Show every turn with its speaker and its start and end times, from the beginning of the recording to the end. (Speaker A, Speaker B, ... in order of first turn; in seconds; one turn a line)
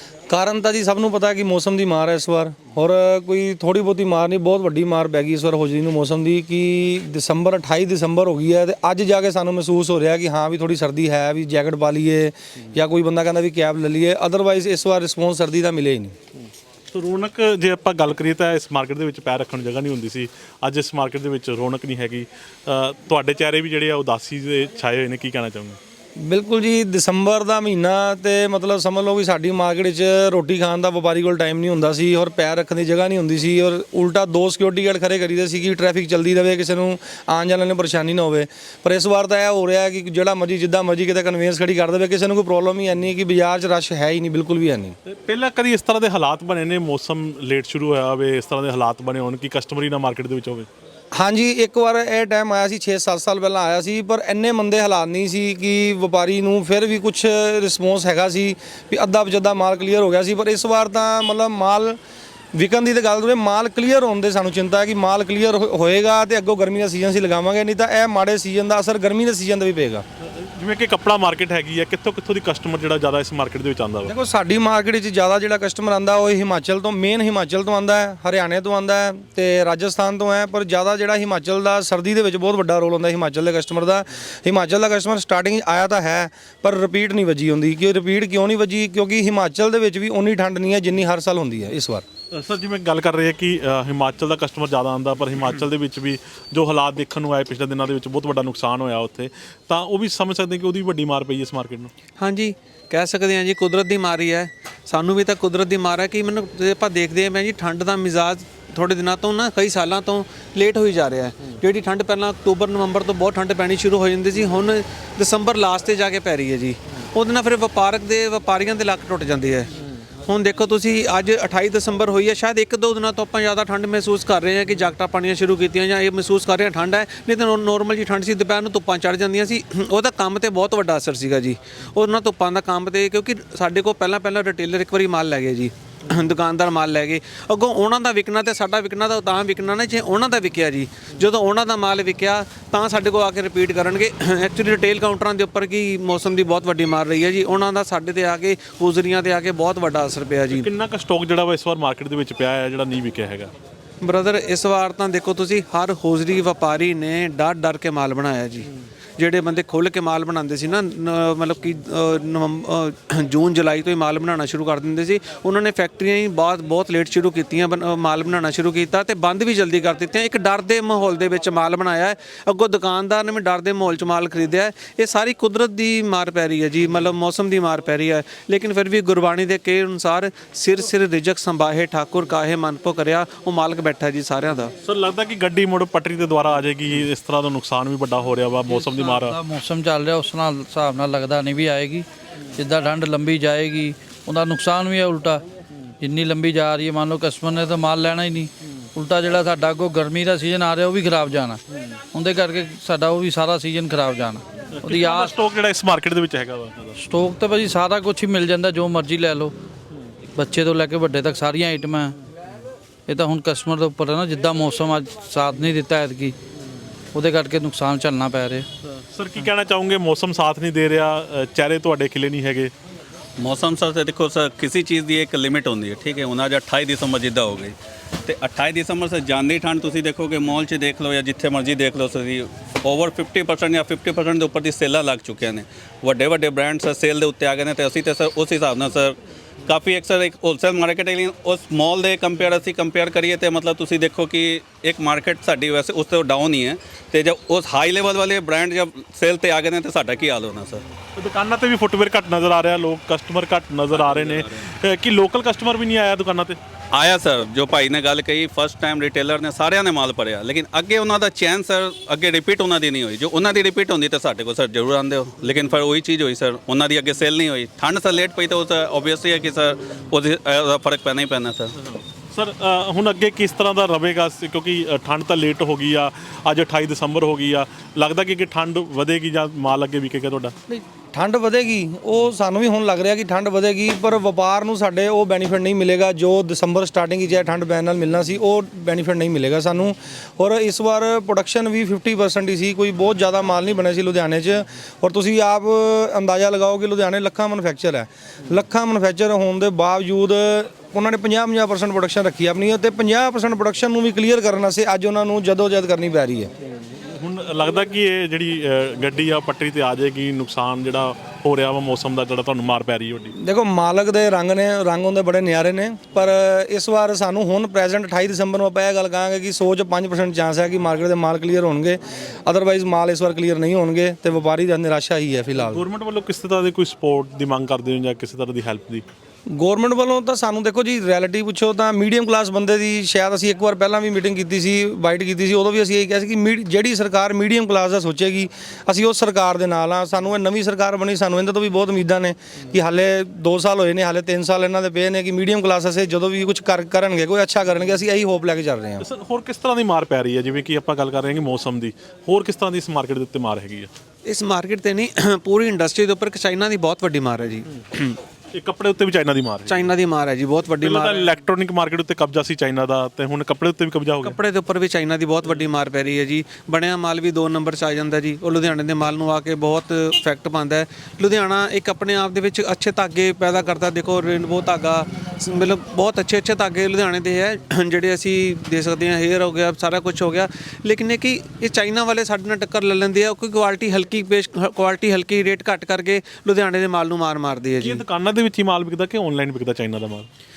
Speaker A: 0.3-16.1
Speaker B: 16.9-25.8
Speaker A: 26.2-45.0
Speaker B: 45.0-50.7
Speaker A: 51.1-62.0
Speaker A: 62.5-70.0
Speaker B: 70.2-74.1
Speaker A: 74.0-92.0
Speaker B: 92.3-101.9
Speaker C: 102.2-119.7
Speaker C: 120.2-150.7
Speaker B: 150.5-153.5
Speaker C: 154.0-184.7
Speaker B: 184.8-189.4
Speaker D: 188.7-195.4
Speaker D: 196.0-201.6
Speaker D: 202.1-205.3
Speaker B: 204.7-207.0
Speaker D: 207.0-209.5
Speaker D: 210.3-212.2
Speaker D: 213.1-216.3
Speaker D: 217.1-218.7
Speaker B: 219.0-222.7
Speaker E: 223.4-250.8
Speaker B: 251.1-256.6
Speaker E: 254.1-254.5
Speaker E: 256.9-271.7
Speaker B: 271.8-280.5
Speaker A: 280.8-306.5
Speaker B: 306.9-313.3
Speaker A: 313.4-325.8
Speaker B: 325.6-329.1
Speaker A: 329.5-349.1
Speaker B: 349.0-353.9
Speaker C: 354.2-358.2
Speaker B: 358.5-359.9
Speaker C: 359.7-361.3
Speaker B: 360.8-364.4
Speaker C: 364.2-388.0
Speaker B: 387.8-390.3